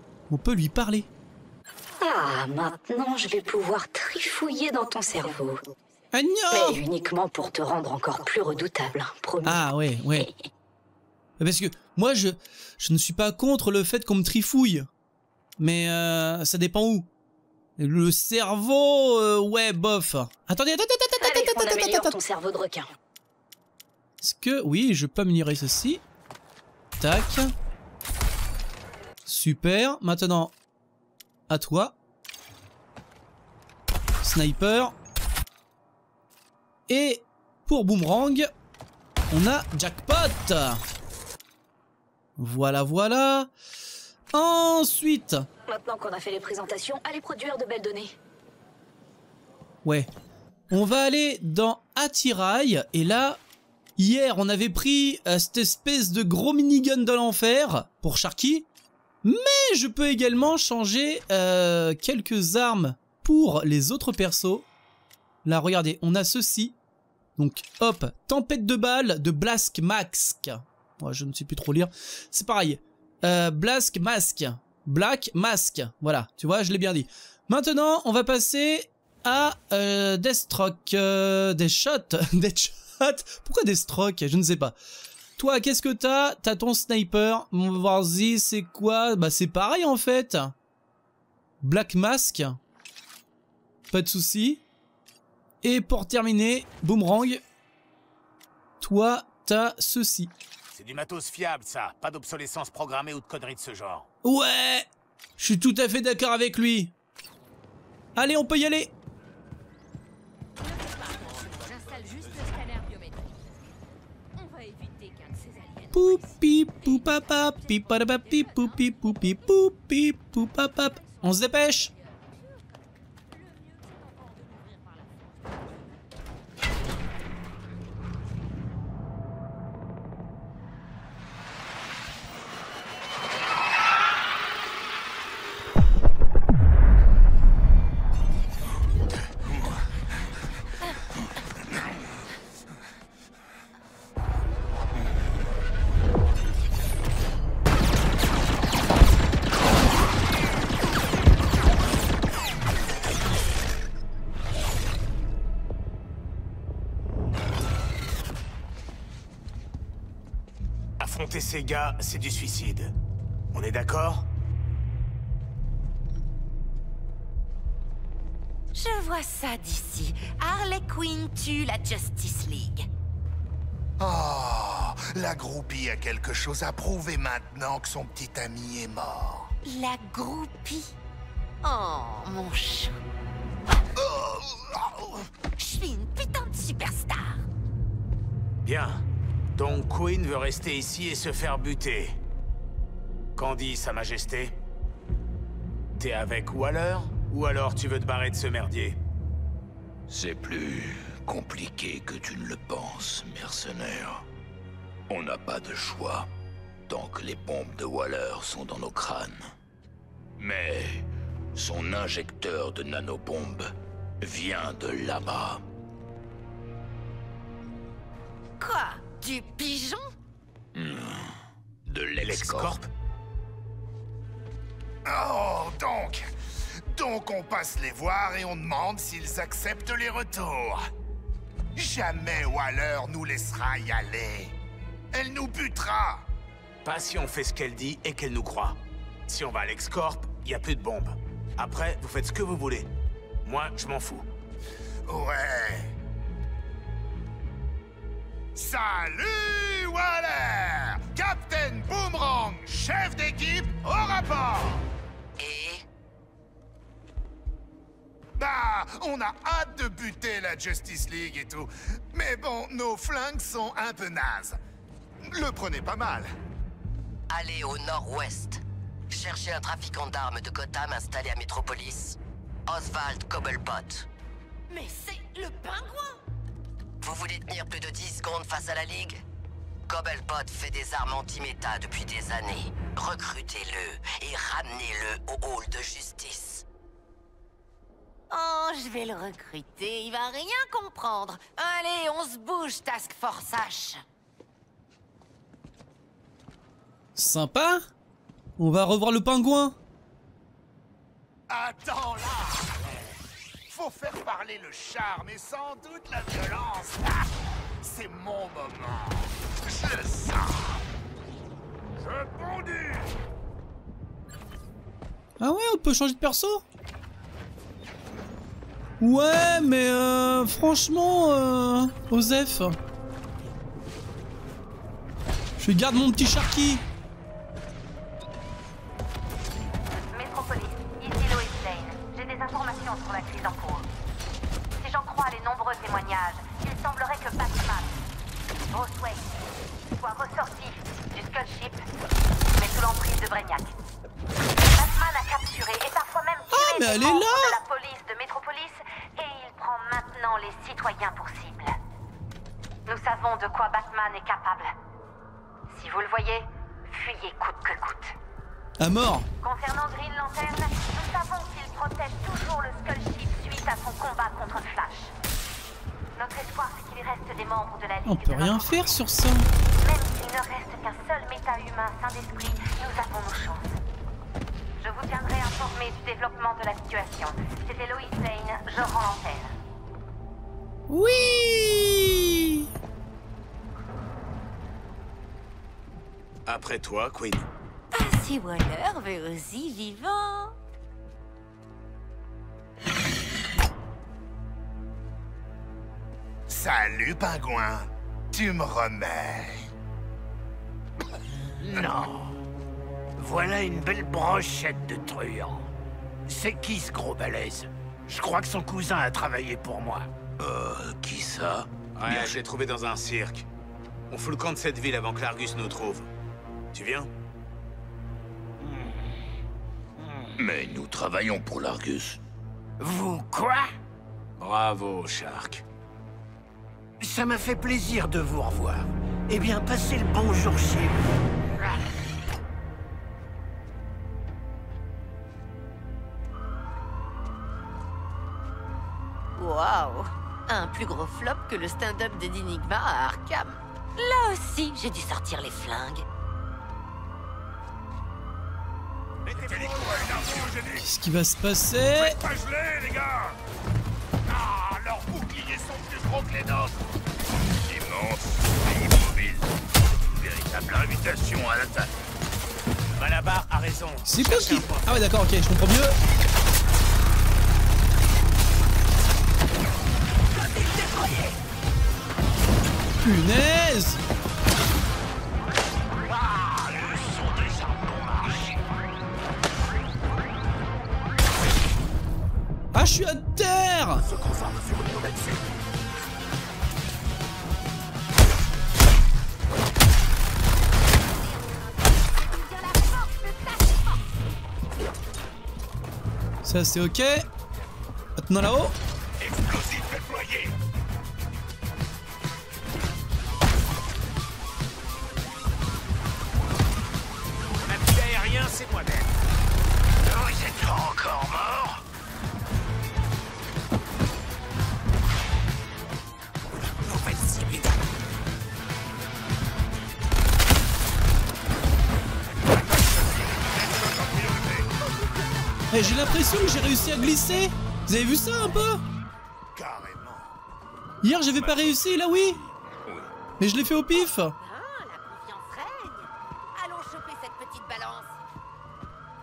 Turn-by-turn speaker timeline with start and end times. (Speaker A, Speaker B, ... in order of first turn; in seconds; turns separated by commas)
Speaker A: 0.3-1.1, Speaker B: 2.0-5.6, Speaker A: 6.1-6.8, Speaker B: 6.5-10.4, Speaker A: 9.4-10.3, Speaker A: 11.4-14.9, Speaker A: 15.6-17.1, Speaker A: 17.8-22.2, Speaker B: 21.2-22.9, Speaker A: 24.2-26.0, Speaker A: 27.0-27.6, Speaker A: 29.2-30.5, Speaker A: 31.5-32.0, Speaker A: 34.2-35.0, Speaker A: 36.9-38.5, Speaker A: 39.3-40.8, Speaker A: 42.4-43.5, Speaker A: 44.3-45.5, Speaker B: 45.7-48.1, Speaker A: 49.9-50.1, Speaker A: 50.7-53.4, Speaker A: 54.0-58.7, Speaker A: 59.2-64.7, Speaker A: 65.5-66.8, Speaker A: 67.4-84.8, Speaker A: 85.4-90.5, Speaker A: 91.6-92.6, Speaker A: 93.9-94.6, Speaker A: 95.6-97.4, Speaker A: 98.8-100.3, Speaker C: 100.7-104.1, Speaker A: 104.2-106.9, Speaker A: 108.2-108.9, Speaker D: 111.2-112.7, Speaker D: 115.3-115.8, Speaker A: 115.9-121.9, Speaker C: 161.0-162.9, Speaker C: 163.5-164.3, Speaker D: 168.7-172.9, Speaker E: 174.0-179.5, Speaker D: 179.6-180.9, Speaker D: 181.6-183.0, Speaker E: 184.0-185.2, Speaker D: 185.6-187.4, Speaker C: 188.7-189.0, Speaker C: 189.6-192.2, Speaker C: 193.4-194.6, Speaker C: 196.0-199.0, Speaker F: 200.1-204.2, Speaker F: 205.1-206.3, Speaker F: 206.9-209.4, Speaker F: 210.4-215.6, Speaker D: 218.6-220.1, Speaker F: 220.8-221.3, Speaker F: 221.9-222.8, Speaker C: 222.2-222.9, Speaker E: 225.1-226.3, Speaker E: 226.9-230.9, Speaker E: 231.8-234.6, Speaker E: 235.1-236.3, Speaker C: 236.8-242.9, Speaker C: 243.4-244.3, Speaker E: 245.1-245.9, Speaker E: 248.6-254.8, Speaker G: 255.4-255.8, Speaker E: 258.4-264.6, Speaker E: 265.2-266.3, Speaker G: 267.3-274.1, Speaker D: 274.7-276.2, Speaker G: 277.0-279.2, Speaker G: 279.9-286.6, Speaker D: 288.3-294.0, Speaker A: 297.2-297.9, Speaker A: 298.6-299.8, Speaker E: 301.5-303.2, Speaker E: 303.7-310.8, Speaker F: 312.0-313.1, Speaker A: 315.4-316.6, Speaker A: 319.0-322.8, Speaker A: 325.6-326.8, Speaker H: 330.1-333.9, Speaker H: 334.8-338.0, Speaker H: 338.7-339.4, Speaker H: 340.0-341.9, Speaker H: 342.5-343.7, Speaker H: 344.5-351.8, Speaker A: 346.5-347.6, Speaker H: 352.9-354.7, Speaker H: 355.7-358.1, Speaker A: 358.8-359.3, Speaker H: 359.4-365.1, Speaker H: 366.2-369.0, Speaker A: 368.1-369.5, Speaker H: 369.8-373.8, Speaker H: 374.8-379.5, Speaker A: 380.9-382.7, Speaker C: 386.5-387.5, Speaker D: 387.9-390.5, Speaker E: 396.5-399.7, Speaker I: 401.6-402.4, Speaker I: 403.2-405.7, Speaker I: 406.3-410.1, Speaker F: 410.4-412.4, Speaker C: 411.9-413.5, Speaker C: 414.1-416.1, Speaker C: 416.7-417.1, Speaker F: 420.4-422.2, Speaker I: 422.8-423.7, Speaker C: 424.4-425.6, Speaker I: 427.0-431.0, Speaker I: 431.5-431.8, Speaker D: 439.4-446.1, Speaker C: 449.3-450.6, Speaker F: 449.3-450.9, Speaker A: 450.8-452.2, Speaker F: 451.9-453.4, Speaker E: 454.3-456.8, Speaker F: 457.6-459.5, Speaker F: 460.0-461.9, Speaker C: 463.0-465.1, Speaker A: 464.1-466.0, Speaker I: 470.4-471.3, Speaker A: 473.0-474.0, Speaker I: 476.1-478.6, Speaker A: 482.7-484.0, Speaker I: 484.0-485.4, Speaker D: 491.1-494.0, Speaker A: 496.4-497.3, Speaker A: 498.2-498.8, Speaker F: 499.3-499.8, Speaker C: 507.6-509.2, Speaker I: 510.0-511.8, Speaker I: 516.8-517.8, Speaker F: 522.5-524.7, Speaker A: 525.7-528.8, Speaker A: 531.0-532.4, Speaker F: 531.4-533.1, Speaker A: 533.4-534.4, Speaker D: 534.4-538.2